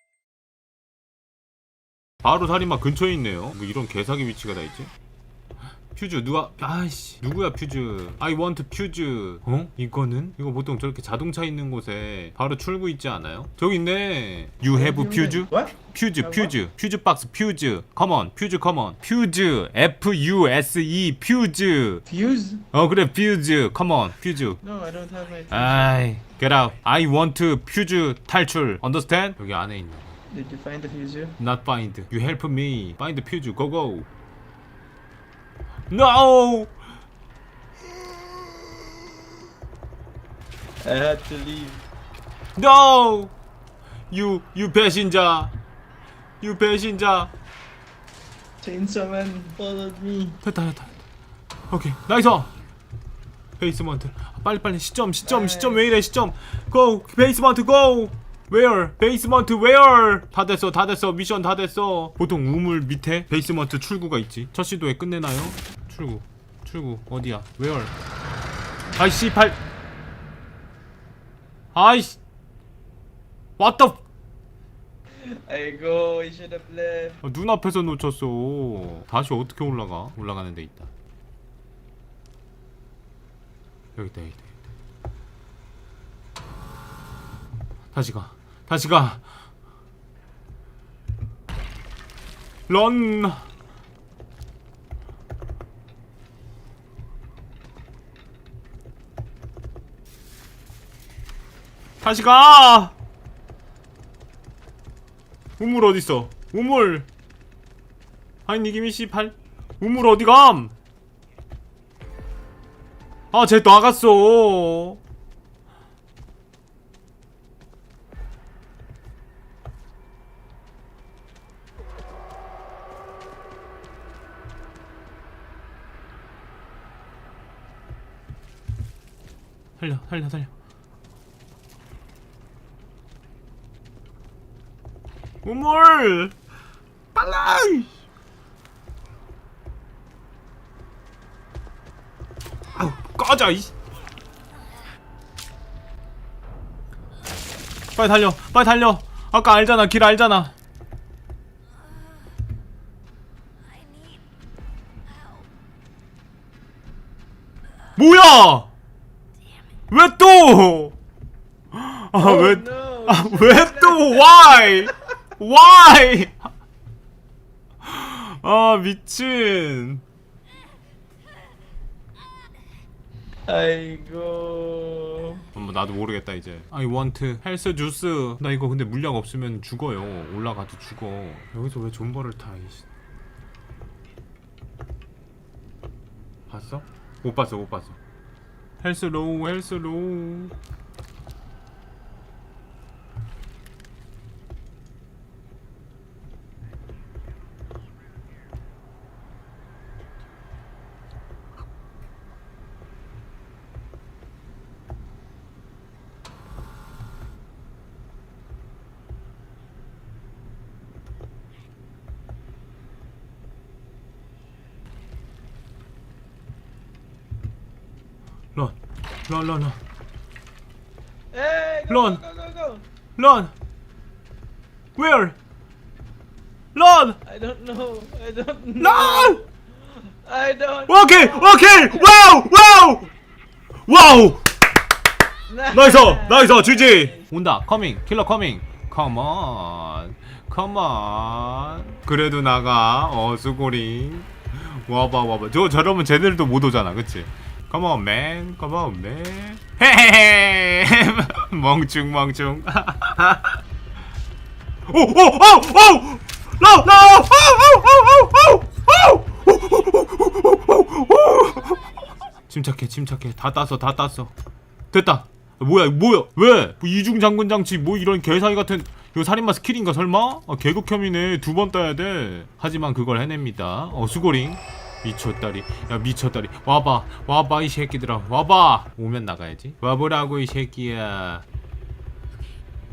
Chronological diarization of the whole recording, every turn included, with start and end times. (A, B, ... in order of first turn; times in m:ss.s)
0:02.2-0:04.9 A
0:05.9-0:22.0 A
0:14.7-0:16.5 B
0:22.1-0:22.6 B
0:22.7-0:24.6 A
0:24.6-0:25.9 B
0:25.5-0:30.2 A
0:30.3-0:31.4 B
0:31.4-0:34.1 A
0:35.9-0:36.7 A
0:40.8-0:41.8 B
0:42.6-0:43.3 A
0:44.1-0:45.5 A
0:46.4-0:47.3 A
0:48.6-0:50.4 B
0:50.4-0:51.0 A
0:51.7-0:52.5 A
0:53.6-1:07.9 A
0:55.2-0:55.8 B
1:09.0-1:09.6 A
1:11.7-1:12.2 A
1:13.6-1:14.0 A
1:15.2-1:17.2 B
1:17.2-1:20.9 A
1:24.0-1:24.6 A
1:27.9-1:29.3 A
1:32.7-1:33.5 A
1:42.0-1:43.0 A
1:45.6-1:47.1 A
1:48.5-1:50.7 A
1:53.3-1:55.0 A
2:09.8-2:10.5 A
2:15.4-2:16.4 A
2:17.2-2:18.0 A
2:22.7-2:23.7 A
2:28.0-2:30.5 A
2:38.0-2:38.7 A
2:39.9-2:41.0 A
2:41.7-2:46.5 A
2:42.2-2:44.9 B
2:47.8-2:50.0 A
2:53.5-2:55.4 B
2:55.6-3:02.9 A
3:06.5-3:08.0 A
3:08.8-3:10.5 A
3:38.6-3:39.8 A
3:41.3-3:42.8 B
3:41.9-3:42.2 A
3:43.2-3:43.5 A
3:45.0-3:45.4 A
3:46.8-3:47.2 A
3:47.2-3:52.2 B
3:48.8-3:49.4 A
3:50.9-3:53.1 A
3:53.9-3:54.5 A
3:55.5-3:57.2 B
3:55.7-4:13.6 A
4:14.9-4:21.8 A
4:22.5-4:24.3 A
4:24.9-4:41.4 A